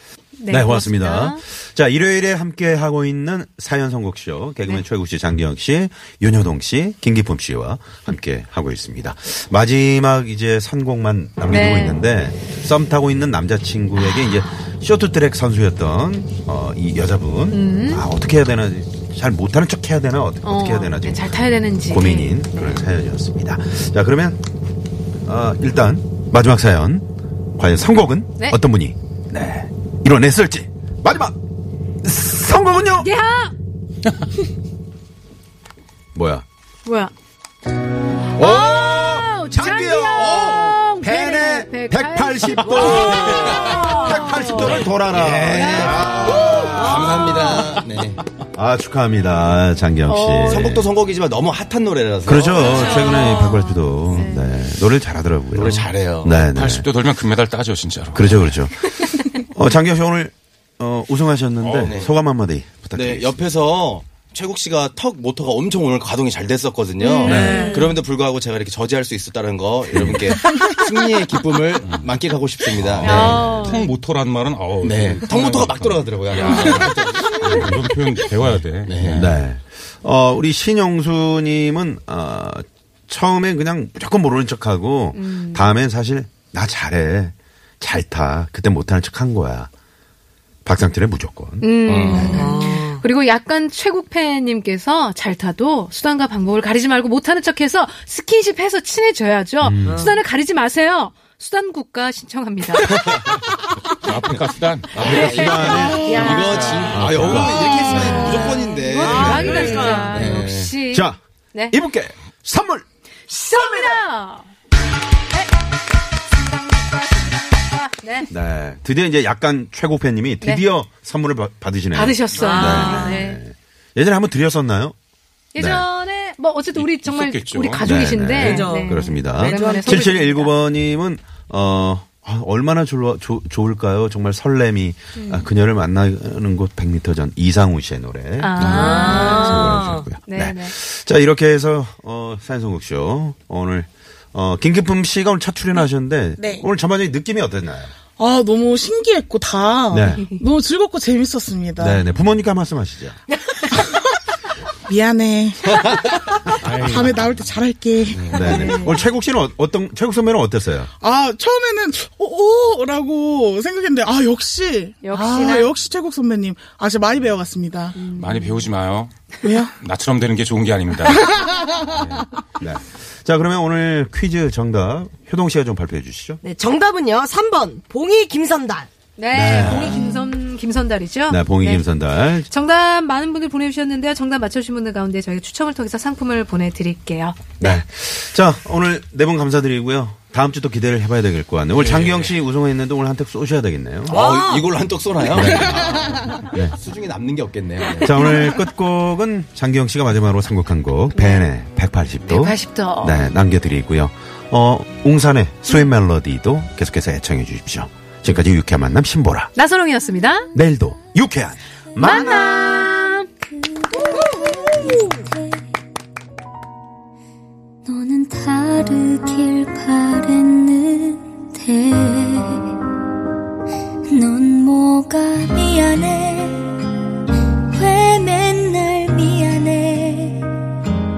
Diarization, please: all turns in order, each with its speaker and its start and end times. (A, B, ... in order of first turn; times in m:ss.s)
0:00.4-0:01.4 A
0:00.5-0:24.4 B
0:11.5-0:12.0 A
0:17.5-0:18.0 A
0:20.4-0:22.6 A
0:25.3-0:27.0 B
0:27.6-0:31.4 B
0:32.0-0:33.1 B
0:33.0-0:33.5 A
0:36.2-0:36.4 B
0:36.8-0:37.1 A
0:38.3-0:44.9 A
0:38.4-0:47.6 B
0:40.2-0:40.8 C
0:42.7-0:44.0 C
0:42.7-0:43.6 D
0:44.5-0:48.2 C
0:45.5-0:47.2 A
0:46.8-0:47.7 E
0:48.5-0:50.9 B
0:50.1-0:50.8 A
0:50.2-0:53.4 C
0:52.2-0:56.9 B
0:52.6-0:54.7 A
0:55.5-0:56.5 C
0:56.5-0:58.6 D
0:58.1-1:03.4 B
1:01.6-1:02.0 D
1:01.8-1:02.2 C
1:02.9-1:13.6 C
1:07.0-1:08.0 A
1:07.2-1:07.8 B
1:07.4-1:07.8 E
1:09.9-1:10.2 B
1:11.8-1:12.1 D
1:12.9-1:19.4 D
1:13.0-1:13.8 B
1:13.0-1:13.9 A
1:14.8-1:17.5 C
1:17.4-1:17.7 B
1:18.8-1:19.3 C
1:19.1-1:29.7 B
1:25.1-1:25.7 A
1:30.6-1:32.5 B
1:31.6-1:43.0 A
1:31.9-1:32.5 D
1:32.0-1:33.0 E
1:39.6-1:40.1 B
1:39.9-1:40.2 E
1:43.9-1:45.2 D
1:44.9-1:50.7 C
1:45.0-1:48.2 B
1:45.0-1:51.8 A
1:45.8-1:47.3 D
1:49.0-1:50.2 E
1:49.0-1:49.6 B
1:50.9-1:51.2 B
1:51.7-1:52.8 B
1:53.3-1:54.5 A
1:53.5-1:54.0 B
1:55.3-1:58.3 A
1:58.3-2:05.0 B
2:01.9-2:03.4 A
2:02.4-2:03.2 E
2:05.5-2:10.5 A
2:05.6-2:05.9 B
2:06.8-2:07.9 D
2:07.8-2:27.9 B
2:08.4-2:10.0 E
2:15.2-2:15.5 A
2:18.4-2:20.7 A
2:18.6-2:20.1 E
2:26.4-2:26.6 F
2:28.2-2:32.0 F
2:29.9-2:30.3 B
2:30.2-2:30.4 A
2:31.8-2:33.2 B
2:33.7-2:34.2 F
2:34.9-2:38.8 F
2:36.6-2:37.6 D
2:38.1-2:38.5 C
2:38.3-2:40.9 B
2:38.3-2:38.9 A
2:41.0-2:48.0 F
2:45.0-2:45.7 A
2:48.0-2:48.7 A
2:48.2-2:49.1 D
2:49.4-2:49.7 F
2:49.8-2:51.4 D
2:51.9-2:52.3 D
2:52.6-2:56.4 B
2:56.4-2:58.9 E
2:59.2-3:07.8 A
2:59.3-3:00.2 B
3:01.3-3:02.5 B
3:07.6-3:14.2 B
3:11.8-3:12.3 C
3:14.1-3:18.4 C
3:14.1-3:14.7 E
3:15.3-3:16.7 B
3:18.0-3:29.5 B
3:21.1-3:21.5 A
3:22.3-3:23.2 A
3:29.6-3:30.5 A
3:30.5-3:32.6 B
3:32.0-3:33.3 A
3:32.1-3:32.9 G
3:33.6-3:35.6 G
3:37.9-3:42.7 G
3:44.1-3:46.8 G
3:47.7-3:50.5 G